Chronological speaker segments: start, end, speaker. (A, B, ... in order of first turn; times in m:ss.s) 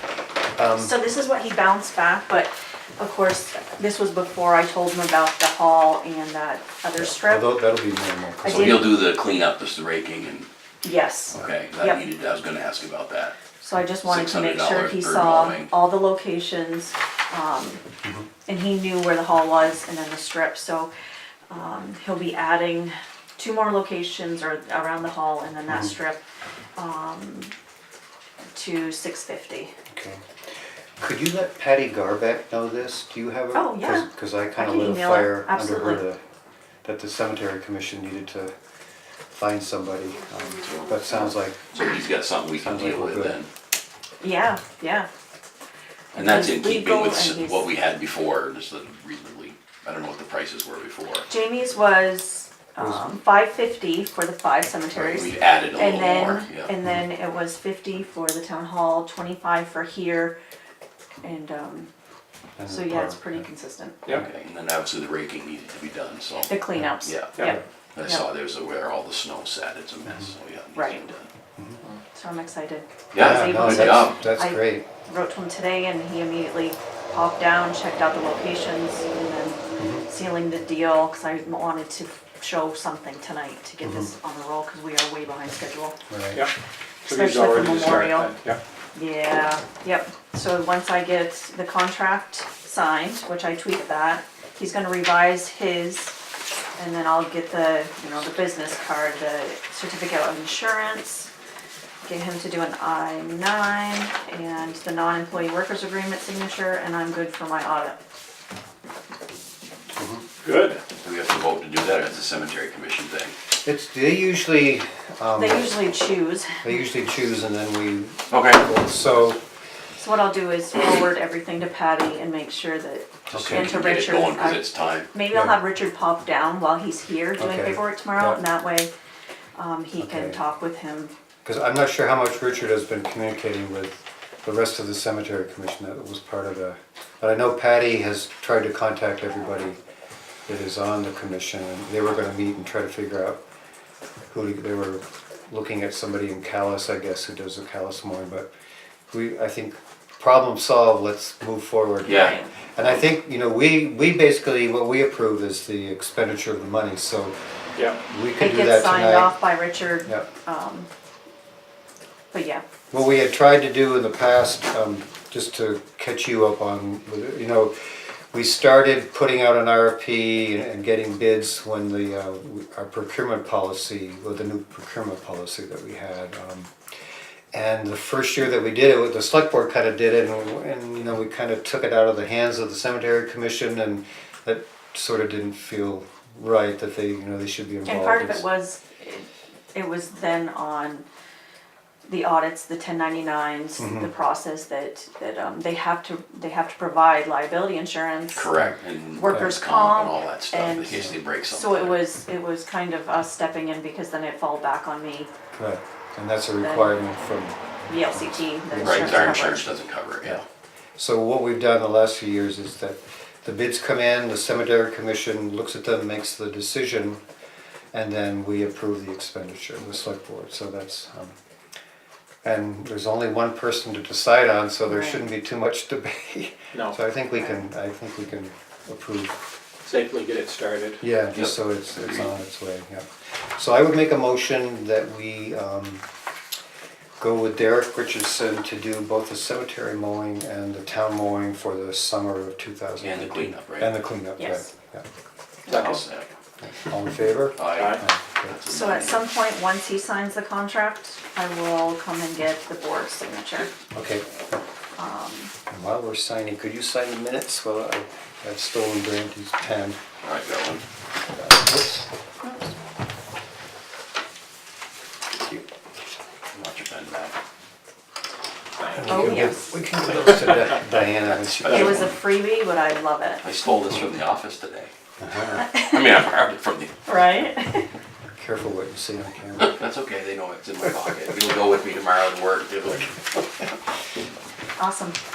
0:00.5-0:00.9 A
0:00.8-0:07.6 B
0:06.9-0:08.9 A
0:08.4-0:08.9 B
0:08.5-0:10.5 C
0:10.8-0:12.0 B
0:11.3-0:13.3 C
0:13.6-0:17.8 B
0:14.0-0:15.7 C
0:18.4-0:20.9 B
0:21.5-0:26.2 B
0:25.7-0:25.9 A
0:26.8-0:27.5 B
0:28.5-0:29.7 B
0:29.9-0:30.2 A
0:31.0-0:36.2 A
0:33.5-0:36.0 B
0:36.8-0:38.5 A
0:39.3-0:41.8 A
0:40.6-0:41.1 C
0:41.7-0:43.5 C
0:42.6-0:43.4 A
0:44.2-0:45.1 B
0:46.1-0:47.7 B
0:46.1-0:51.3 C
0:51.2-1:00.4 B
0:52.8-0:53.2 A
0:54.9-0:56.7 C
1:01.2-1:01.9 B
1:02.6-1:03.4 A
1:02.6-1:04.0 B
1:04.1-1:07.4 C
1:06.5-1:08.2 B
1:07.9-1:11.2 C
1:10.1-1:10.3 A
1:10.7-1:11.1 B
1:12.1-1:26.0 B
1:13.1-1:14.2 C
1:13.2-1:14.8 A
1:19.8-1:20.0 A
1:23.8-1:24.1 A
1:26.1-1:26.4 A
1:27.0-1:28.6 D
1:27.1-1:28.3 B
1:28.9-1:36.1 B
1:36.8-1:41.3 B
1:42.0-1:48.0 B
1:49.9-1:50.2 A
1:50.4-1:50.8 D
1:51.0-1:53.3 C
1:53.6-1:55.8 A
1:55.4-1:56.6 B
1:56.6-1:59.4 A
1:58.3-1:58.7 C
2:00.0-2:08.9 B
2:03.3-2:03.7 A
2:03.3-2:05.1 C
2:07.4-2:08.4 A
2:09.6-2:11.1 B
2:10.0-2:10.4 A
2:11.4-2:19.8 A
2:20.5-2:23.4 A
2:24.3-2:28.5 A
2:29.1-2:37.4 A
2:32.0-2:33.0 C
2:32.0-2:32.5 B
2:38.1-2:39.3 A
2:38.4-2:40.9 B
2:42.3-2:42.6 B
2:42.9-2:56.7 A
2:57.5-3:08.4 A
3:07.8-3:11.0 B
3:12.0-3:18.5 B
3:13.8-3:14.1 A
3:18.3-3:22.0 C
3:19.2-3:25.3 B
3:25.6-3:27.6 A
3:26.6-3:26.9 B
3:27.9-3:29.7 B
3:28.1-3:29.6 A
3:28.8-3:30.4 C
3:31.0-3:37.2 A
3:37.9-3:41.3 A
3:42.4-3:49.4 A
3:44.9-3:45.2 B
3:49.8-3:51.0 D
3:51.0-3:56.0 A
3:51.3-3:52.3 C
3:57.2-4:05.0 A
4:03.0-4:03.9 C
4:04.4-4:04.7 B
4:05.6-4:06.0 B
4:05.7-4:06.0 D
4:05.7-4:06.3 C
4:06.6-4:08.6 A
4:07.5-4:09.2 C
4:07.7-4:08.0 D
4:08.6-4:13.7 B
4:13.9-4:14.6 A
4:15.0-4:15.5 B
4:15.7-4:20.0 A
4:20.2-4:20.8 C
4:21.3-4:22.1 A
4:22.4-4:22.7 B
4:26.5-4:27.3 C
4:28.8-4:29.5 D
4:29.0-4:32.1 A
4:29.0-4:29.7 B
4:31.2-4:32.1 C
4:31.6-4:33.4 B
4:31.7-4:32.0 D
4:33.4-4:34.9 C
4:35.2-4:35.7 A
4:35.6-4:36.0 B
4:35.7-4:36.9 C
4:37.0-4:37.9 B
4:38.4-4:39.8 A
4:39.6-4:43.2 C
4:44.8-4:45.2 B